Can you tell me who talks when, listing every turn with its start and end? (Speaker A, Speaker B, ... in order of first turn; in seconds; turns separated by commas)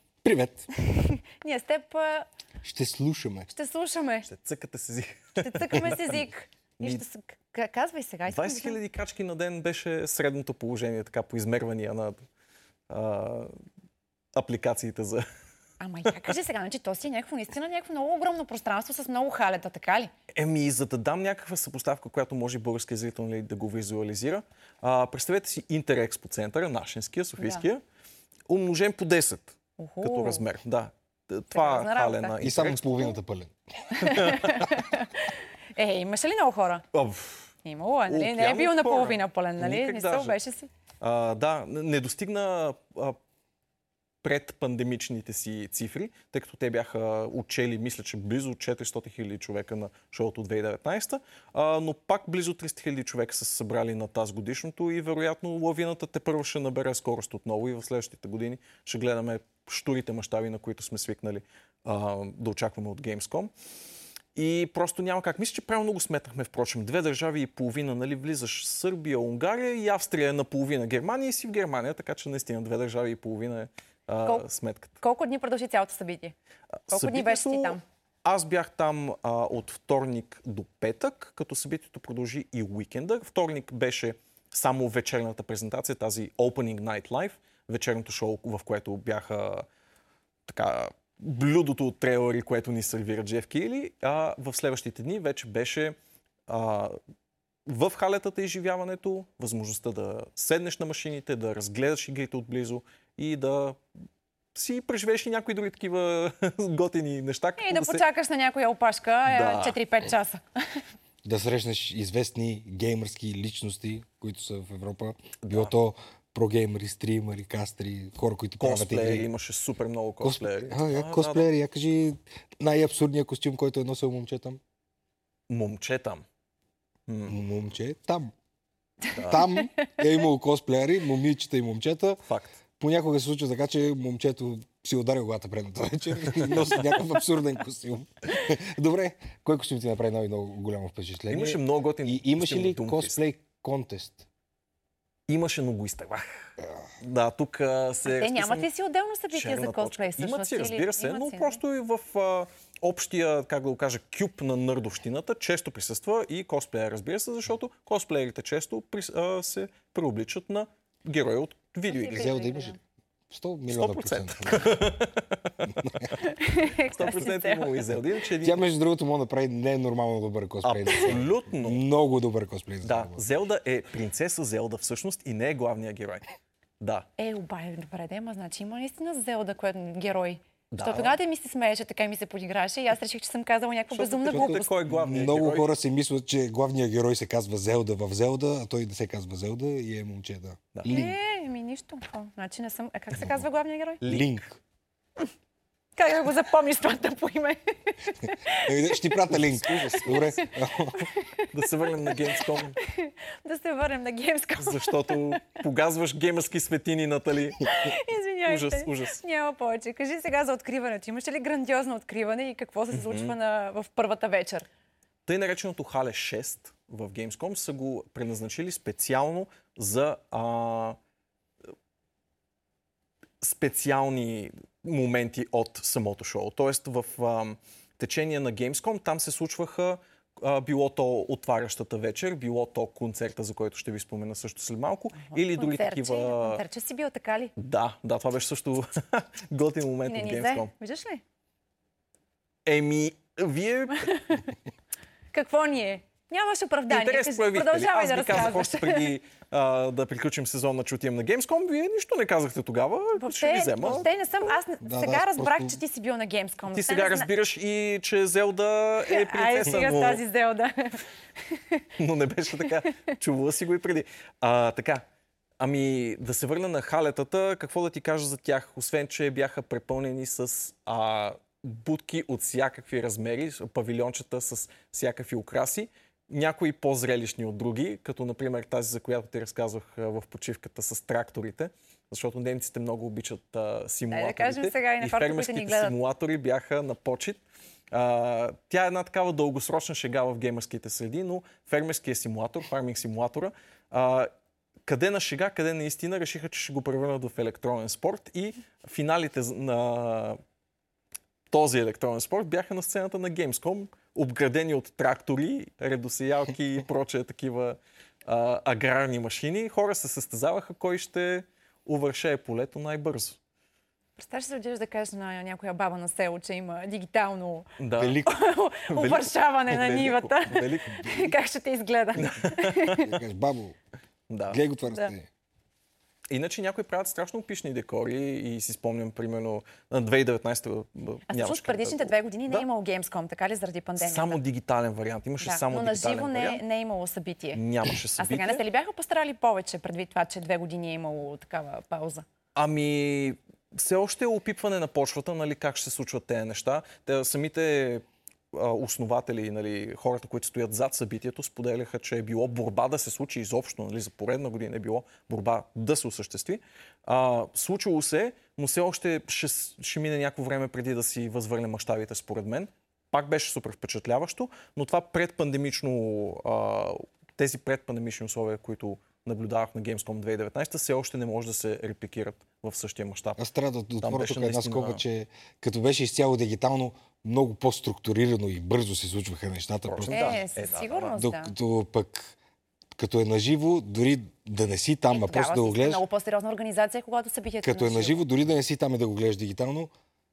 Speaker A: 0.2-0.7, Speaker B: 0.8-2.3, Speaker A: 2.6-3.5, Speaker B: 3.5-4.3, Speaker C: 4.3-6.2, Speaker B: 5.4-8.8, Speaker C: 8.3-12.2, Speaker C: 12.9-13.5, Speaker C: 14.3-15.2, Speaker B: 15.8-20.1, Speaker C: 20.3-27.8, Speaker B: 27.4-27.7, Speaker C: 28.5-33.1, Speaker B: 29.8-30.5, Speaker B: 31.5-32.4, Speaker A: 32.4-34.1, Speaker B: 34.0-36.9, Speaker C: 34.0-34.7, Speaker C: 36.9-37.5, Speaker B: 37.6-40.7, Speaker C: 38.1-40.4, Speaker C: 41.0-43.2, Speaker C: 44.2-63.5, Speaker C: 64.4-75.0, Speaker B: 75.0-76.3, Speaker B: 76.9-77.8, Speaker C: 76.9-89.7, Speaker C: 90.5-96.0, Speaker C: 96.5-97.0, Speaker C: 97.7-103.8, Speaker C: 104.5-108.0, Speaker B: 107.6-110.8, Speaker C: 109.2-109.8, Speaker A: 111.2-119.3, Speaker C: 115.4-115.7, Speaker C: 118.6-121.5, Speaker A: 120.2-124.6, Speaker C: 125.5-126.2, Speaker C: 127.1-127.4, Speaker A: 127.3-128.3, Speaker C: 129.1-129.5, Speaker A: 129.2-132.2, Speaker B: 129.6-130.0, Speaker C: 132.3-132.6, Speaker A: 132.8-144.3, Speaker C: 136.3-136.8, Speaker C: 141.3-143.2, Speaker C: 145.3-148.7, Speaker B: 148.1-151.6, Speaker C: 149.3-162.3, Speaker B: 161.9-162.8, Speaker A: 162.1-162.8, Speaker A: 163.3-164.9, Speaker C: 163.7-166.1, Speaker B: 166.2-167.9, Speaker C: 166.9-168.6, Speaker A: 168.4-173.2, Speaker C: 170.6-171.8, Speaker C: 172.8-176.2, Speaker C: 176.8-177.1, Speaker B: 177.2-184.7, Speaker C: 180.7-181.2, Speaker C: 183.9-185.8, Speaker A: 184.3-191.2, Speaker C: 190.7-191.0, Speaker B: 190.9-194.0, Speaker C: 194.0-194.4, Speaker A: 194.1-194.6, Speaker B: 196.0-199.2, Speaker A: 198.6-201.1, Speaker C: 199.3-200.4, Speaker B: 199.8-200.4, Speaker B: 201.0-205.6, Speaker C: 201.5-202.8, Speaker C: 204.6-207.7, Speaker B: 207.6-214.7, Speaker C: 208.5-209.2, Speaker C: 212.9-213.4, Speaker C: 215.3-221.0, Speaker C: 223.4-236.6, Speaker B: 235.3-237.5, Speaker C: 237.6-240.7, Speaker B: 240.1-241.2, Speaker C: 242.7-244.3, Speaker B: 244.1-244.5, Speaker B: 245.3-249.1, Speaker C: 246.9-254.1, Speaker B: 253.2-257.3, Speaker A: 254.8-255.8, Speaker C: 256.7-260.2, Speaker B: 259.1-261.8, Speaker C: 262.0-265.1, Speaker C: 265.6-287.4, Speaker B: 284.1-286.0, Speaker C: 287.9-294.3, Speaker C: 294.9-300.4, Speaker C: 301.5-313.4, Speaker B: 314.2-317.7, Speaker C: 317.8-318.2, Speaker A: 318.0-318.4, Speaker B: 318.2-323.1, Speaker C: 318.9-321.3, Speaker C: 322.1-323.1, Speaker A: 322.9-323.8, Speaker C: 324.3-324.6, Speaker A: 324.5-325.3, Speaker C: 326.3-332.7, Speaker B: 331.3-334.4, Speaker C: 334.0-336.6, Speaker B: 335.4-337.6, Speaker C: 337.5-338.6, Speaker B: 338.2-342.2, Speaker C: 342.6-373.4, Speaker A: 373.4-380.4, Speaker C: 374.0-375.0, Speaker C: 379.9-381.1, Speaker B: 380.1-381.5, Speaker A: 381.1-382.4, Speaker A: 382.9-386.0, Speaker B: 385.1-388.2, Speaker A: 387.6-389.9